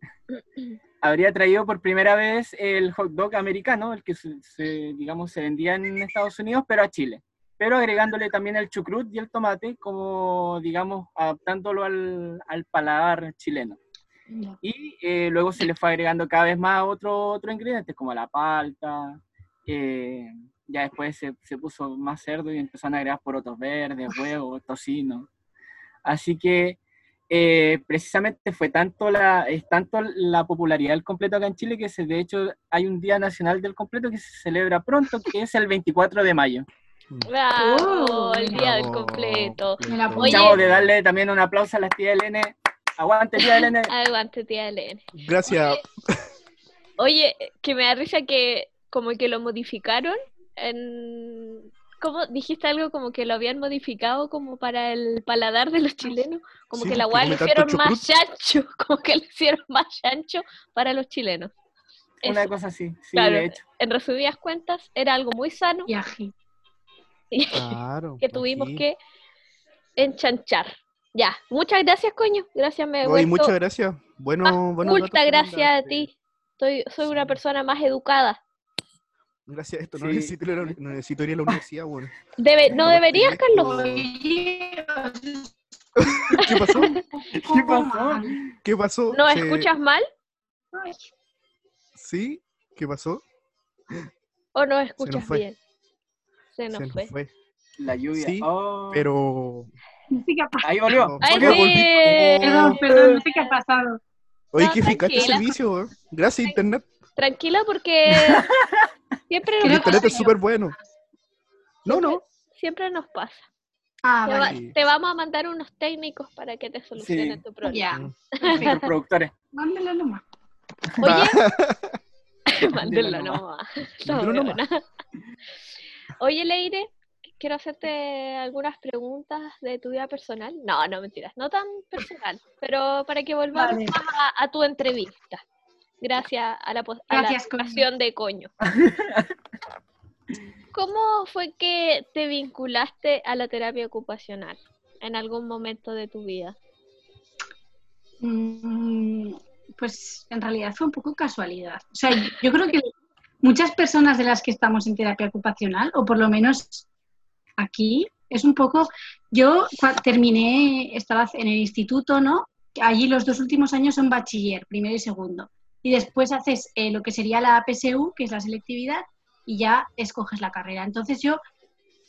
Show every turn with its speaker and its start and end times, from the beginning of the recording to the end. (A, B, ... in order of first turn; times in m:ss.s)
0:00.3-0:00.8 A
0:01.0-0:13.8 B
0:14.3-0:14.6 C
0:14.6-0:25.3 B
0:26.0-0:26.8 B
0:27.3-0:36.6 B
0:37.3-0:40.6 A
0:37.6-0:38.7 C
0:38.5-0:40.9 D
0:39.8-0:40.5 C
0:40.3-0:43.9 B
0:43.4-0:45.0 A
0:45.1-0:46.2 D
0:47.0-1:01.5 A
0:56.7-0:58.0 D
1:02.2-1:02.5 A
1:02.2-1:03.6 B
1:03.1-1:05.9 A
1:05.9-1:06.3 C
1:07.3-1:09.0 A
1:07.5-1:08.8 D
1:10.0-1:13.5 A
1:13.0-1:16.1 D
1:14.4-1:18.4 A
1:17.0-1:17.4 D
1:19.5-1:22.1 D
1:20.0-1:20.8 B
1:22.4-1:23.8 A
1:22.7-1:24.1 D
1:23.6-1:26.5 C
1:26.0-1:27.0 D
1:26.4-1:27.0 A
1:27.2-1:28.4 C
1:27.3-1:28.4 B
1:28.6-1:29.7 D
1:29.1-1:30.0 A
1:30.7-1:31.0 C
1:31.9-1:33.2 D
1:34.5-1:35.6 A
1:35.0-1:35.4 D
1:36.6-1:37.1 A
1:36.7-1:37.3 D
1:37.8-1:39.0 B
1:38.1-1:39.7 D
1:40.1-1:40.6 C
1:40.6-1:41.8 B
1:40.9-1:42.8 D
1:41.2-1:43.5 A
1:42.4-1:44.0 C
1:42.9-1:43.2 B
1:44.5-1:46.8 D
1:44.6-1:45.5 A
1:45.1-1:45.4 C
1:47.2-1:48.5 A
1:48.1-1:48.8 B
1:49.3-1:50.3 A
1:49.6-1:50.8 D
1:49.6-1:50.8 C
1:51.8-1:52.2 D
1:51.9-1:53.4 A
1:54.0-1:54.6 C
1:54.2-1:58.9 A
1:54.4-1:54.7 D
1:57.0-1:57.4 B
1:57.6-1:58.8 C
1:58.4-1:59.3 B
1:59.5-2:00.2 C
2:01.0-2:01.4 A
2:01.0-2:02.0 D
2:02.5-2:04.8 A
2:02.7-2:03.3 D
2:04.0-2:04.6 D
2:06.2-2:15.4 A
2:13.5-2:14.0 C
2:16.0-2:18.5 A
2:17.1-2:17.9 C
2:18.6-2:19.3 B
2:20.7-2:26.6 A
2:28.2-2:32.9 C
2:33.4-2:36.9 C
2:37.6-2:51.4 C